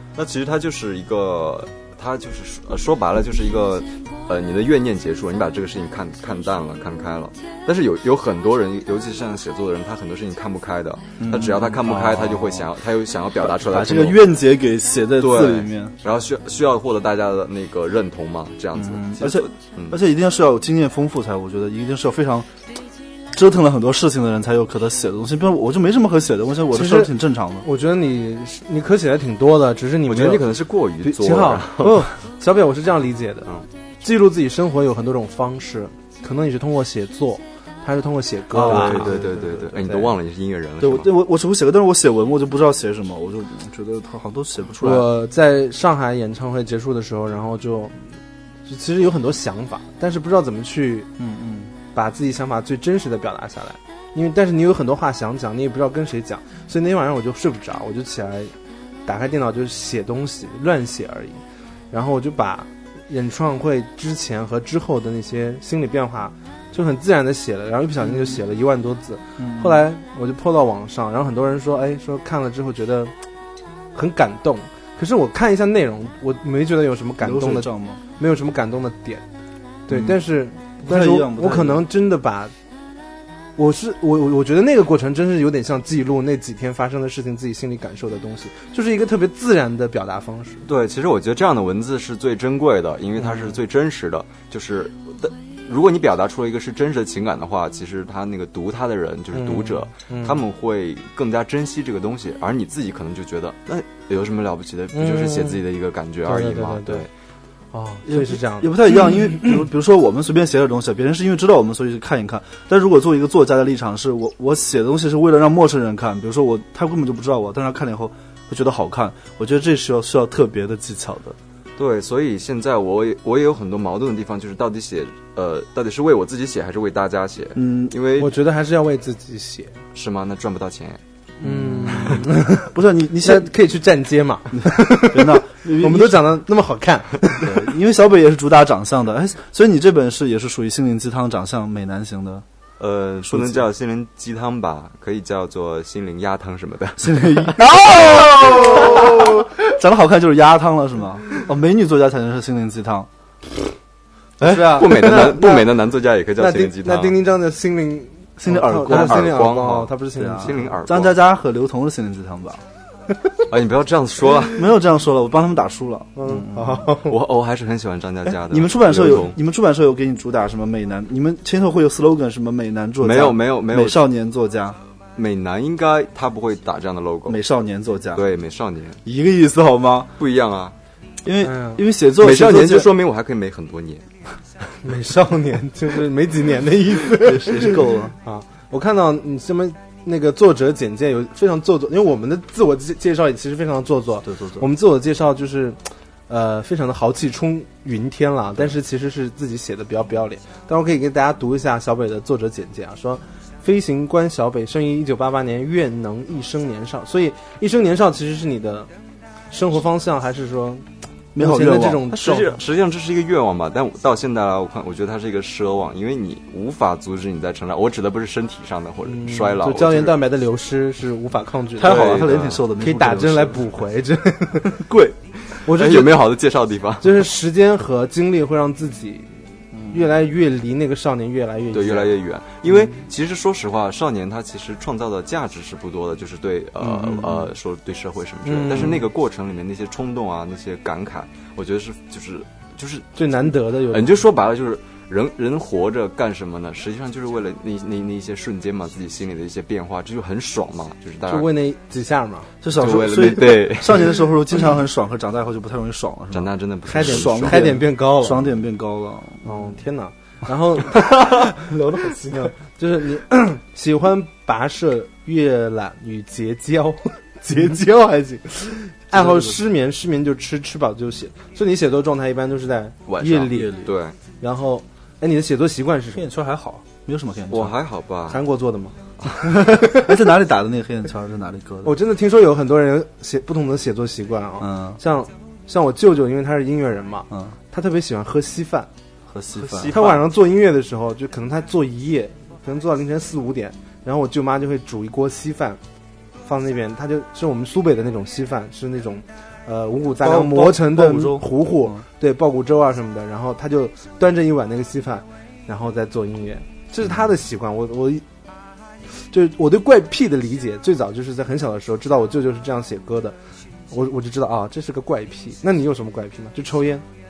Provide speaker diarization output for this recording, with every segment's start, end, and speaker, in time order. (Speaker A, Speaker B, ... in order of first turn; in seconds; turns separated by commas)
Speaker A: 0.1-14.3, Speaker B: 11.2-12.7, Speaker B: 13.4-15.9, Speaker A: 15.2-20.0, Speaker B: 18.8-22.5, Speaker B: 23.3-27.6, Speaker C: 26.7-30.5, Speaker A: 30.1-32.1, Speaker C: 31.0-33.5, Speaker C: 34.0-39.1, Speaker B: 38.5-40.1, Speaker A: 38.6-41.1, Speaker B: 40.8-45.1, Speaker C: 44.8-51.1, Speaker B: 51.2-51.7, Speaker C: 51.9-58.5, Speaker C: 59.0-61.4, Speaker C: 61.9-73.1, Speaker B: 69.4-69.8, Speaker C: 73.9-79.2, Speaker B: 77.2-78.0, Speaker C: 79.9-82.5, Speaker B: 79.9-80.2, Speaker B: 80.8-81.9, Speaker C: 83.6-90.6, Speaker A: 90.6-107.1, Speaker C: 93.2-93.5, Speaker C: 99.3-100.4, Speaker C: 104.9-105.6, Speaker C: 106.2-107.1, Speaker C: 107.7-109.5, Speaker B: 108.0-121.4, Speaker A: 121.8-128.3, Speaker B: 127.5-128.0, Speaker C: 128.2-129.8, Speaker A: 129.9-131.0, Speaker B: 131.4-133.5, Speaker C: 131.4-132.7, Speaker C: 133.2-137.6, Speaker B: 134.5-136.2, Speaker B: 137.4-142.4, Speaker A: 142.8-149.1, Speaker B: 143.2-143.7, Speaker B: 147.0-153.1, Speaker C: 154.4-155.7, Speaker A: 154.5-157.2, Speaker C: 156.4-160.7, Speaker B: 158.4-159.4, Speaker A: 158.9-161.2, Speaker B: 160.2-162.6, Speaker A: 163.5-164.7, Speaker B: 164.4-167.0, Speaker C: 166.1-167.2, Speaker A: 167.0-169.4, Speaker B: 168.3-174.8, Speaker A: 173.0-174.0, Speaker A: 175.2-177.4, Speaker B: 177.3-178.2, Speaker A: 178.1-179.0, Speaker B: 179.0-180.1, Speaker A: 180.2-180.7, Speaker B: 181.2-182.9, Speaker C: 181.4-181.8, Speaker A: 182.2-184.0, Speaker C: 184.8-208.9, Speaker B: 187.0-188.1, Speaker B: 194.2-194.6, Speaker C: 209.5-210.8, Speaker B: 211.3-212.0, Speaker C: 211.4-212.6, Speaker A: 212.1-220.2, Speaker C: 219.1-224.8, Speaker B: 221.8-223.7, Speaker A: 221.8-222.6, Speaker B: 224.6-225.2, Speaker A: 225.5-227.3, Speaker C: 225.6-226.3, Speaker C: 227.0-232.1, Speaker B: 229.7-230.1, Speaker A: 231.7-251.5, Speaker C: 232.7-233.0, Speaker B: 236.8-237.4, Speaker C: 238.4-239.1, Speaker C: 243.2-244.2, Speaker C: 251.3-252.5, Speaker B: 252.6-259.6, Speaker A: 252.7-254.3, Speaker A: 256.3-257.7, Speaker C: 256.9-258.5, Speaker C: 259.4-273.7, Speaker B: 261.8-262.5, Speaker B: 269.1-269.6, Speaker A: 273.1-274.1, Speaker B: 273.5-273.9, Speaker C: 274.4-276.3, Speaker B: 276.1-277.8, Speaker A: 277.5-278.4, Speaker C: 278.3-280.1, Speaker B: 279.7-282.0, Speaker C: 281.8-288.9, Speaker B: 284.6-285.0, Speaker B: 287.3-287.5, Speaker B: 289.3-289.9, Speaker A: 289.5-290.3, Speaker C: 289.9-295.8, Speaker C: 296.4-308.2, Speaker B: 300.2-302.0, Speaker C: 309.1-313.4, Speaker C: 313.9-317.0